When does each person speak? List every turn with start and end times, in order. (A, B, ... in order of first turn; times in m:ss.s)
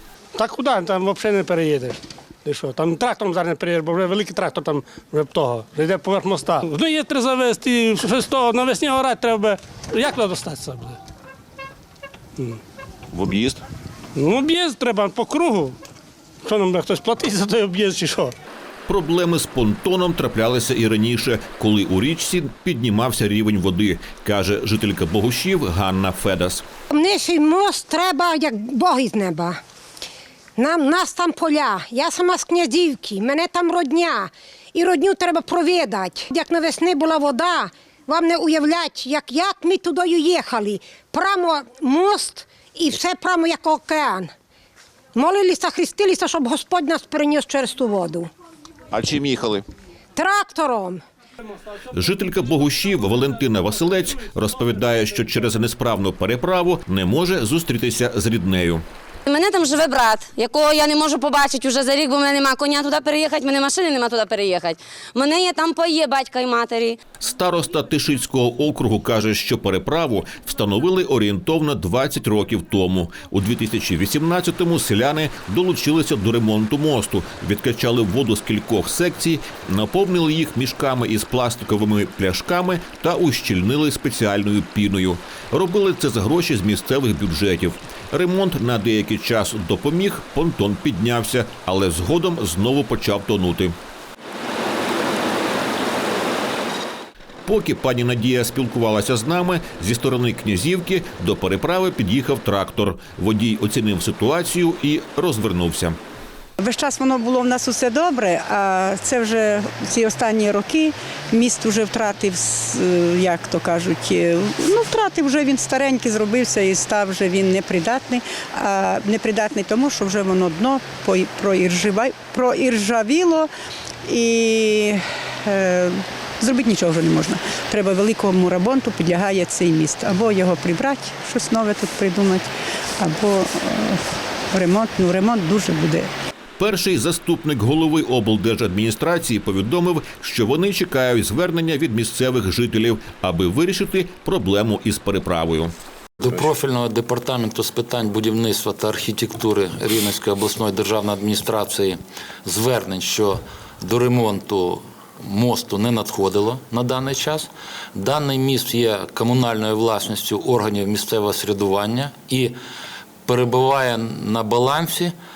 0:00.4-0:11.0 A
0:13.1-0:13.6 B
0:14.2-0:15.8 A
0:16.4-0:18.3 A
0:18.9-0:26.6 B
0:26.9-0:29.6 C
0:30.6-0:44.3 C
0:45.2-0:48.3 C
0:48.9-0:49.7 B
0:50.2-0:51.0 C
0:51.9-0:58.8 B
0:59.3-1:07.0 D
1:07.2-1:33.8 B
1:37.5-1:46.0 B
1:46.6-2:03.5 E
2:04.1-2:16.1 E
2:16.6-2:25.7 B
2:26.2-2:42.6 F
2:43.3-2:45.2 F